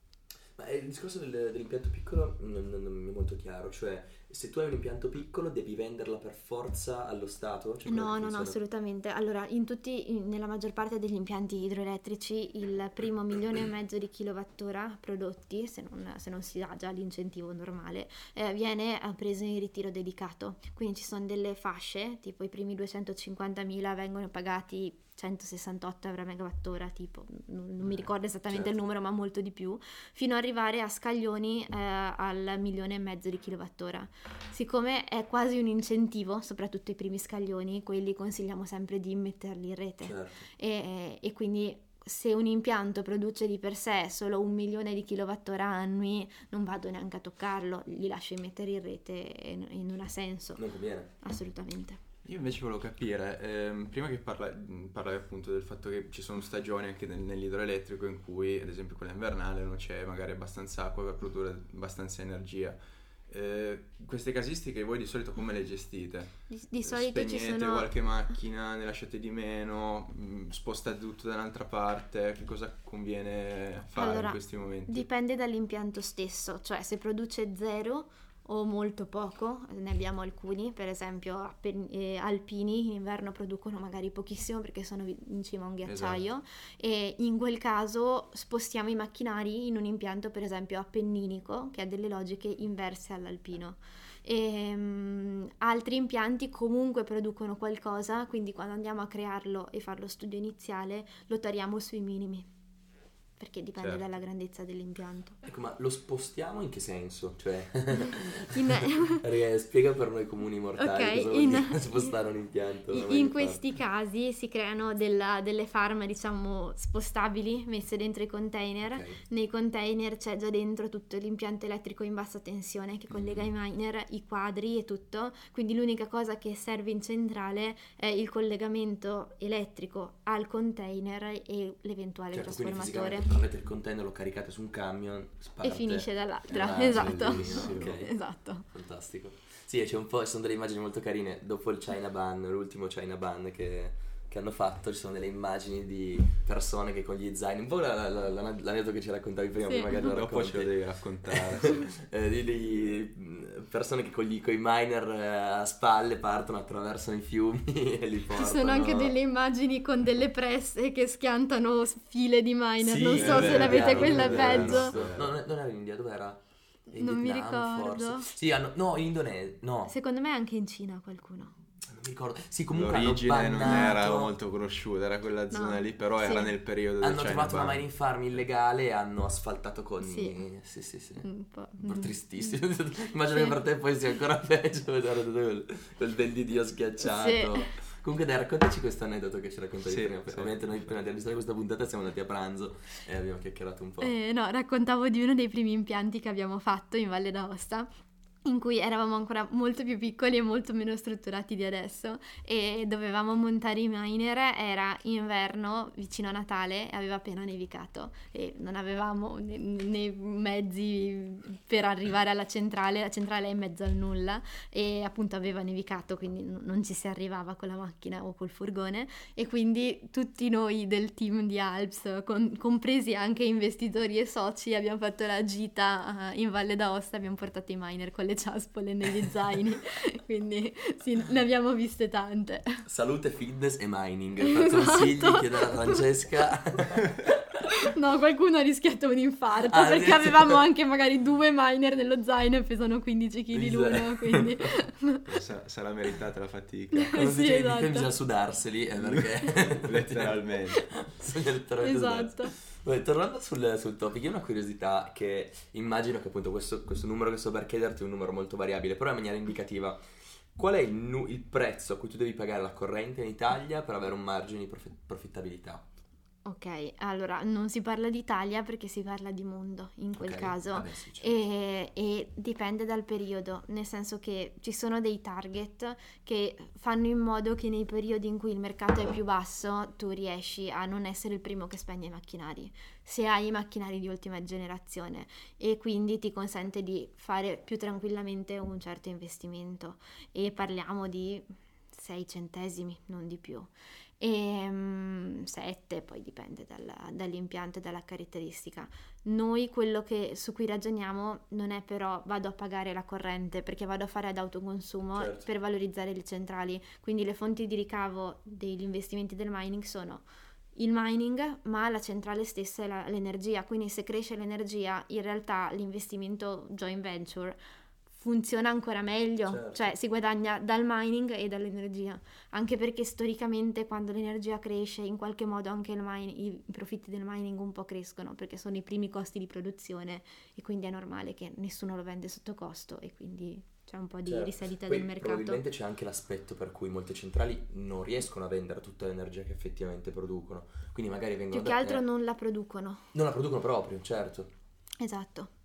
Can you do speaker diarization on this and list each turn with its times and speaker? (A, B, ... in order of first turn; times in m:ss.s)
0:00.6-0:08.6 A
0:07.9-0:50.6 B
0:27.9-0:28.7 A
0:40.0-0:40.4 A
0:50.6-0:51.1 A
0:51.2-0:52.0 B
0:52.2-1:15.1 C
1:06.5-1:07.9 B
1:13.9-1:42.5 B
1:25.8-1:26.2 C
1:43.4-1:45.4 B
1:43.8-1:44.0 C
1:45.4-1:53.6 A
1:48.5-1:49.2 B
1:50.8-1:52.1 B
1:52.9-2:13.3 B
1:58.8-1:59.2 A
2:12.3-2:39.2 A
2:15.6-2:18.7 B
2:16.8-2:18.0 C
2:29.6-2:30.2 B
2:30.0-2:31.8 C
2:38.3-2:45.0 B
2:42.8-2:49.9 A
2:43.1-2:45.3 C
2:46.9-2:48.3 B
2:49.9-2:51.5 B
2:51.8-2:54.3 A
2:52.7-2:57.8 C
2:53.6-2:53.9 B
2:55.5-2:56.5 B
2:57.0-3:01.3 A
3:00.0-3:00.4 B
3:01.2-3:02.1 B
3:01.8-3:14.1 A
3:07.0-3:07.7 B
3:09.8-3:10.8 C
3:14.0-3:17.9 B
3:18.4-3:52.8 B
3:52.8-3:57.3 A
3:54.6-3:56.0 B
3:57.9-4:05.2 B
3:59.7-4:00.6 A
4:03.5-4:04.7 A
4:05.3-4:07.2 C
4:06.9-4:08.1 B
4:07.1-4:25.8 A
4:09.0-4:10.8 C
4:11.8-4:12.5 B
4:26.4-5:10.2 B
4:30.2-4:31.3 A
5:05.1-5:05.5 A
5:10.8-5:17.6 B
5:18.1-5:35.6 B
5:19.4-5:19.9 A
5:34.2-5:42.0 A
5:41.5-5:43.1 B
5:43.1-5:44.5 A
5:45.0-5:45.5 B